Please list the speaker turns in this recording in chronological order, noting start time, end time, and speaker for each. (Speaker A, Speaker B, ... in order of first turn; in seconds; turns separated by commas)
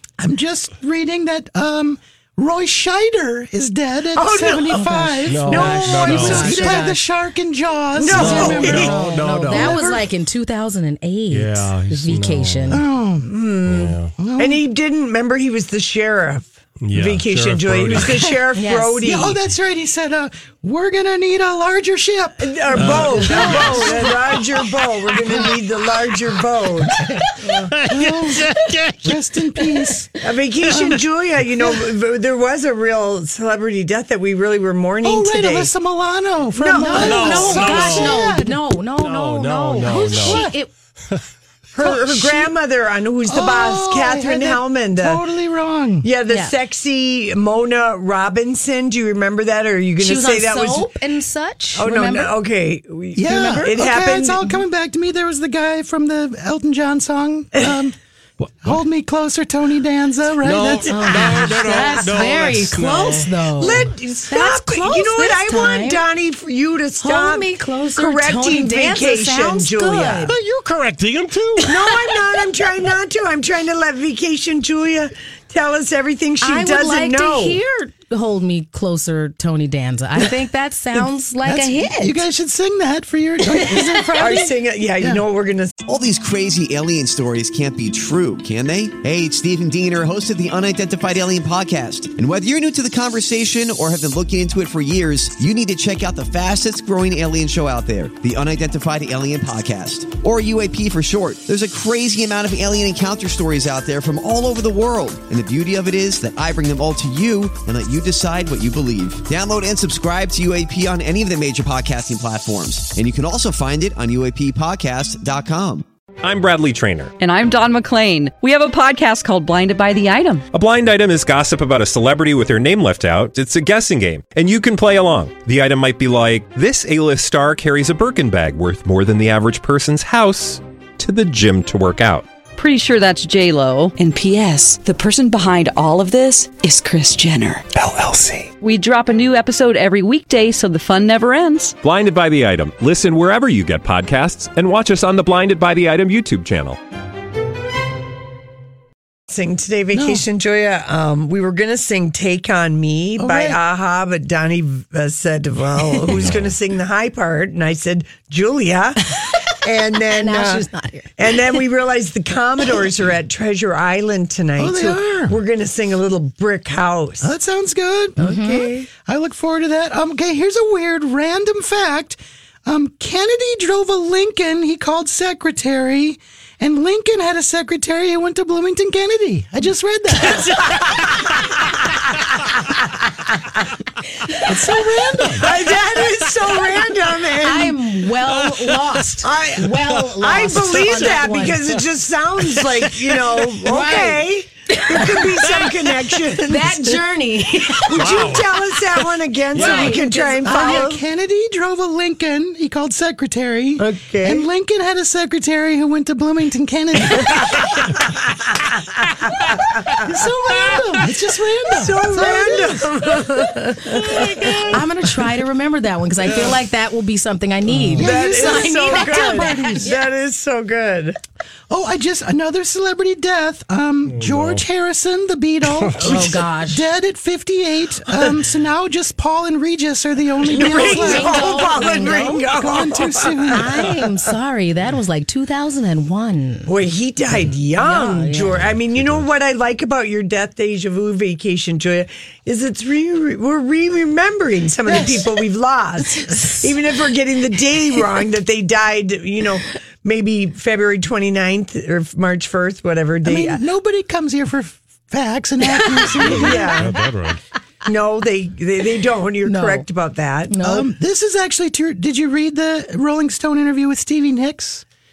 Speaker A: 0.2-8.9, Speaker B: 4.1-6.9, Speaker C: 5.3-6.7, Speaker D: 5.5-7.0, Speaker B: 8.0-8.9, Speaker D: 8.1-12.8, Speaker C: 8.1-9.8, Speaker A: 9.6-9.9, Speaker C: 11.3-12.9, Speaker A: 12.7-13.3, Speaker B: 13.2-19.4, Speaker C: 13.7-14.1, Speaker A: 14.2-14.6, Speaker C: 16.8-18.3, Speaker D: 18.5-19.1, Speaker A: 19.0-24.1, Speaker B: 22.4-27.5, Speaker C: 22.7-23.8, Speaker D: 23.2-24.0, Speaker C: 27.3-29.2, Speaker A: 27.9-28.5, Speaker A: 29.0-30.2, Speaker B: 30.2-35.7, Speaker A: 35.0-38.6, Speaker B: 36.5-37.6, Speaker D: 36.7-40.7, Speaker C: 37.0-38.3, Speaker C: 39.0-40.5, Speaker A: 39.9-40.6, Speaker B: 41.8-45.2, Speaker A: 41.8-42.5, Speaker A: 43.3-46.1, Speaker B: 46.0-50.9, Speaker D: 46.3-46.5, Speaker D: 50.0-52.3, Speaker B: 51.8-54.6, Speaker A: 53.1-58.0, Speaker C: 58.4-58.8, Speaker A: 58.6-61.1, Speaker C: 60.4-63.3, Speaker D: 60.9-66.0, Speaker B: 61.1-61.9, Speaker B: 63.6-70.3, Speaker D: 67.0-70.3, Speaker C: 70.3-71.7, Speaker B: 71.6-77.6, Speaker D: 76.4-82.2, Speaker A: 81.4-85.2, Speaker D: 83.5-83.9, Speaker B: 84.1-85.8, Speaker E: 85.8-115.8, Speaker F: 116.2-117.1, Speaker G: 117.2-120.5, Speaker F: 120.5-132.2, Speaker G: 132.6-137.7, Speaker G: 138.6-141.8, Speaker F: 141.8-146.8, Speaker B: 149.3-167.3, Speaker A: 149.9-150.2, Speaker A: 153.2-153.6, Speaker C: 156.1-156.5, Speaker D: 160.1-161.3, Speaker A: 164.6-165.3, Speaker A: 167.2-168.2, Speaker D: 168.2-168.7, Speaker B: 168.2-168.9, Speaker A: 168.9-180.7, Speaker B: 180.7-180.9, Speaker A: 184.5-185.5, Speaker B: 185.4-187.8, Speaker D: 187.4-191.7, Speaker C: 188.3-189.0, Speaker B: 189.2-197.1, Speaker C: 192.6-193.5, Speaker D: 193.7-195.7, Speaker D: 196.3-198.1, Speaker B: 197.6-201.0, Speaker C: 197.9-199.0, Speaker C: 199.5-199.9, Speaker D: 199.6-200.8, Speaker A: 199.6-207.7, Speaker B: 203.8-204.5, Speaker B: 207.2-207.7, Speaker A: 210.0-212.9, Speaker B: 210.5-211.1, Speaker B: 211.7-214.8, Speaker D: 213.9-220.0, Speaker A: 217.7-219.9, Speaker B: 218.0-221.2, Speaker A: 221.7-233.8, Speaker C: 224.1-224.6, Speaker C: 225.8-226.2, Speaker D: 226.0-226.8, Speaker B: 230.5-234.0, Speaker D: 230.6-232.5, Speaker D: 233.5-236.7, Speaker B: 236.7-253.6, Speaker D: 237.8-238.6, Speaker C: 238.7-239.2, Speaker A: 244.9-245.3, Speaker A: 253.2-256.8, Speaker D: 255.8-256.1, Speaker B: 256.2-257.0, Speaker C: 256.2-257.4, Speaker B: 257.8-260.8, Speaker D: 259.5-259.9, Speaker D: 260.5-260.9, Speaker A: 260.6-264.8